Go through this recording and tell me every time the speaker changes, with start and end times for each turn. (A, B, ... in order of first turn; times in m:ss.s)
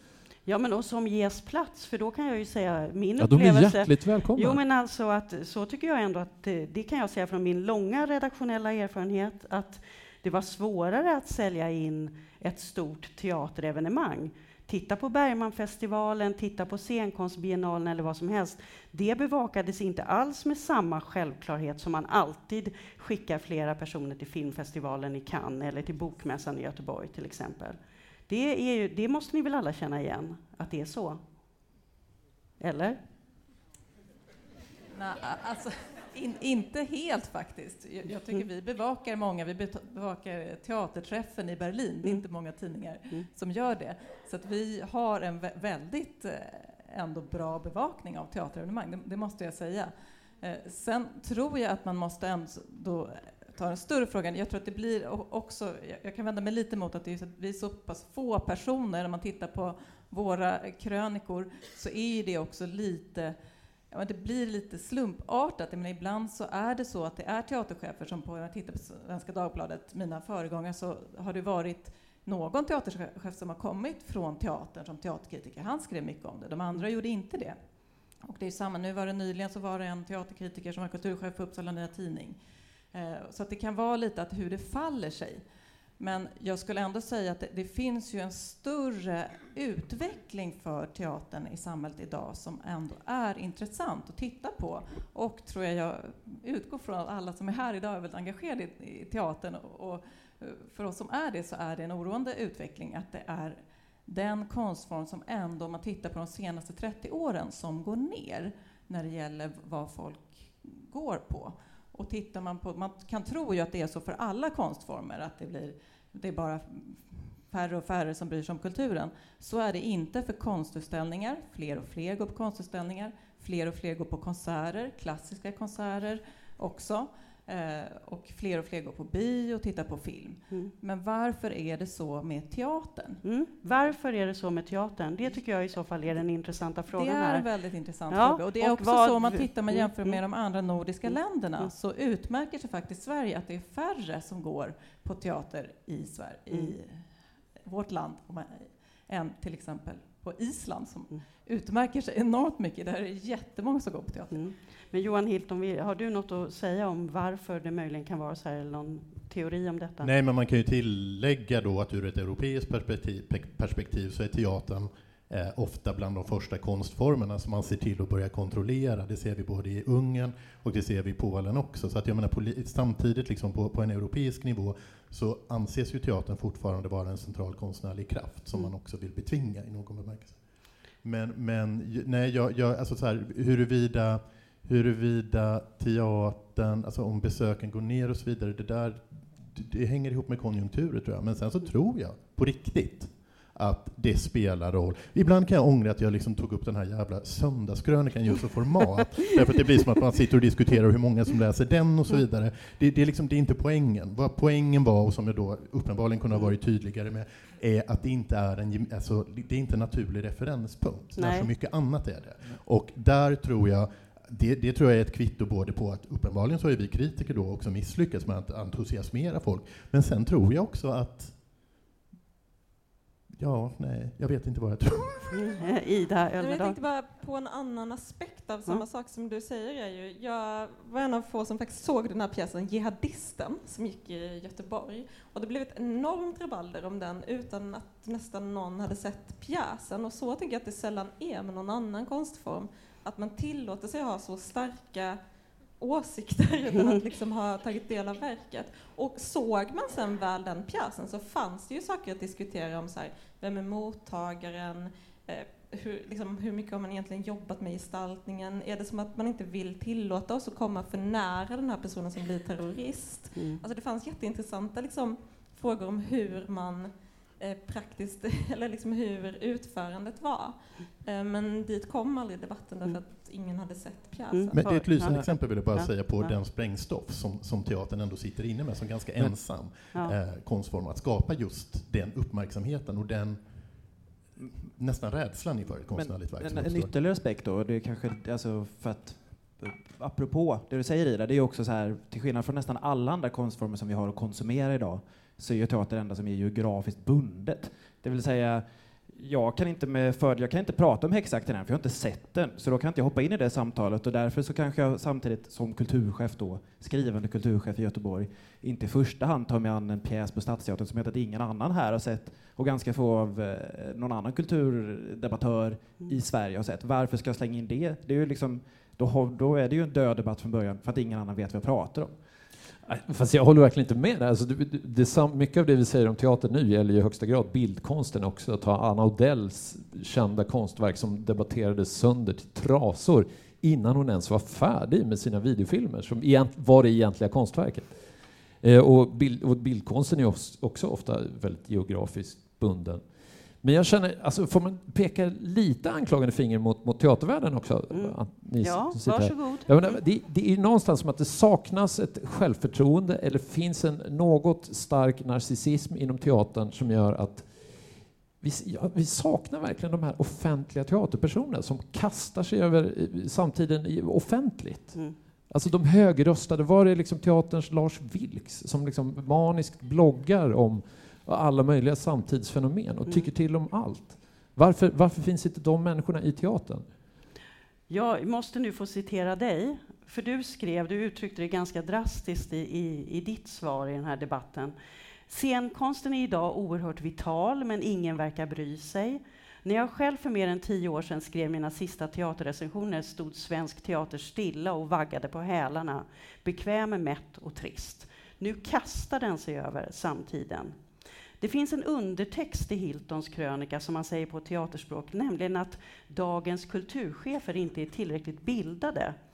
0:00.5-0:31.2 A
0:03.2-0:04.6 B
0:32.6-0:33.0 A
0:34.9-1:03.4 C
1:03.9-1:17.6 C
1:18.2-1:22.4 C
1:22.9-1:25.4 C
1:26.0-2:13.2 C
2:13.2-2:17.5 A
2:16.9-2:27.0 C
2:18.1-2:20.2 A
2:21.0-2:21.7 A
2:26.5-2:26.8 A
2:27.7-2:34.4 C
2:34.3-2:40.1 A
2:40.0-3:00.4 D
3:01.0-3:41.4 D
3:31.2-3:31.5 A
3:43.4-3:45.4 D
3:45.3-3:46.8 A
3:46.4-4:05.2 E
4:05.8-4:34.6 E
4:23.4-4:23.6 A
4:34.3-4:36.3 A
4:34.6-4:43.4 D
4:44.7-4:46.9 D
4:45.9-5:22.2 F
5:22.9-5:38.0 B
5:38.6-5:43.0 B
5:43.6-5:57.6 B
5:47.9-5:50.0 A
5:58.4-6:16.9 B
6:17.9-6:24.8 A
6:25.3-6:40.8 A
6:41.4-6:49.2 A